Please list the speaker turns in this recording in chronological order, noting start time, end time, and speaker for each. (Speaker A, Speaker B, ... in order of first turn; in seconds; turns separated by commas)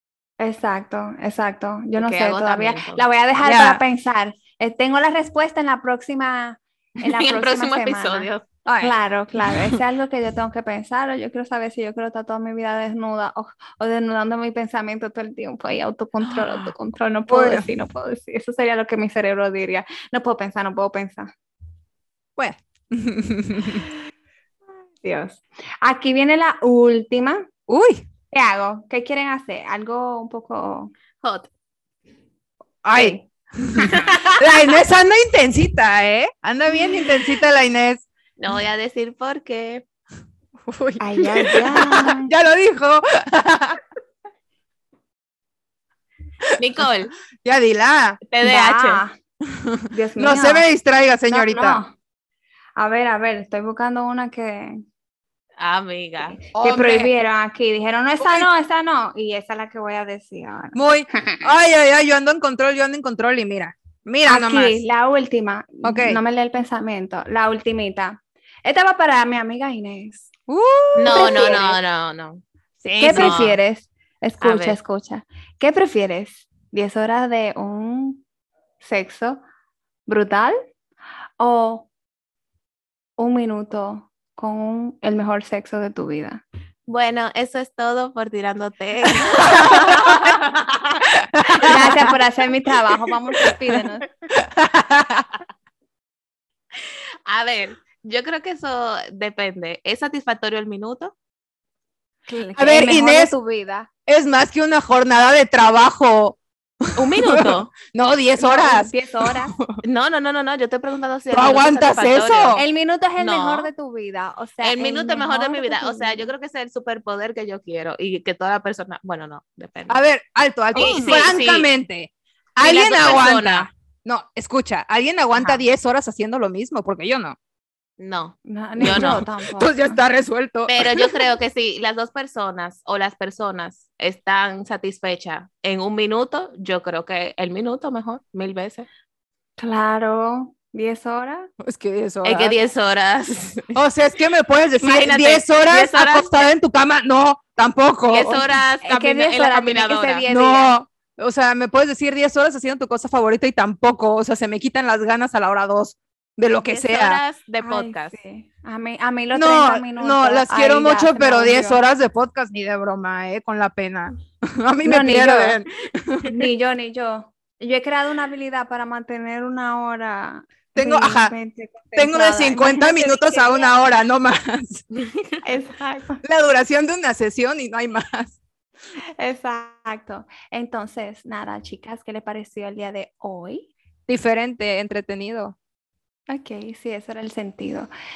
Speaker A: 0.4-21.3, Speaker B: 2.0-3.0, Speaker C: 3.4-3.8, Speaker B: 7.0-8.4, Speaker C: 8.7-9.8, Speaker C: 17.3-17.7, Speaker C: 22.4-23.8, Speaker A: 25.0-27.5, Speaker C: 27.7-28.0, Speaker A: 28.3-30.9, Speaker B: 31.2-31.5, Speaker C: 32.8-38.0, Speaker A: 32.9-33.2, Speaker A: 33.7-34.1, Speaker B: 33.9-34.5, Speaker B: 38.4-39.8, Speaker C: 40.7-43.8, Speaker A: 41.0-42.3, Speaker B: 46.6-47.1, Speaker C: 47.4-48.2, Speaker B: 48.3-49.0, Speaker A: 48.4-49.1, Speaker C: 49.5-51.8, Speaker A: 49.9-50.7, Speaker A: 51.3-51.9, Speaker A: 52.8-54.8, Speaker B: 55.6-56.4, Speaker A: 56.5-61.5, Speaker C: 56.5-57.1, Speaker C: 58.2-58.5, Speaker C: 60.7-64.8, Speaker A: 64.3-70.3, Speaker C: 65.8-66.2, Speaker C: 70.5-71.5, Speaker B: 71.0-72.4, Speaker A: 71.1-71.8, Speaker C: 72.8-73.5, Speaker A: 73.0-78.2, Speaker B: 73.0-73.6, Speaker B: 74.4-74.8, Speaker A: 78.8-79.4, Speaker A: 80.1-80.5, Speaker A: 81.4-81.9, Speaker A: 83.2-86.4, Speaker B: 86.9-90.5, Speaker C: 89.1-90.7, Speaker C: 91.3-92.1, Speaker A: 91.5-94.0, Speaker C: 94.3-95.3, Speaker B: 96.8-101.1, Speaker A: 102.3-103.9, Speaker C: 102.5-103.3, Speaker C: 104.1-109.8, Speaker B: 107.0-107.7, Speaker A: 108.4-109.5, Speaker B: 109.8-112.6, Speaker C: 111.3-112.6, Speaker A: 112.5-116.3, Speaker B: 113.2-113.7, Speaker B: 114.6-120.0, Speaker C: 119.9-127.3, Speaker B: 120.7-121.7, Speaker B: 122.6-123.7, Speaker A: 125.3-125.6, Speaker B: 128.0-129.2, Speaker A: 128.4-130.0, Speaker C: 128.8-131.3, Speaker B: 130.7-138.9, Speaker A: 139.6-141.5, Speaker C: 141.6-142.5, Speaker B: 142.2-143.8, Speaker C: 143.7-148.4, Speaker B: 144.8-146.5, Speaker B: 148.1-150.2, Speaker A: 148.8-150.7, Speaker C: 150.3-157.2, Speaker B: 156.7-158.2, Speaker A: 157.6-161.8, Speaker C: 159.3-166.4, Speaker A: 164.8-165.6, Speaker A: 166.2-173.8, Speaker C: 170.7-171.3, Speaker C: 171.9-174.8, Speaker A: 175.4-176.2, Speaker C: 176.2-178.4, Speaker A: 179.2-183.7, Speaker C: 184.1-185.6, Speaker A: 186.3-187.9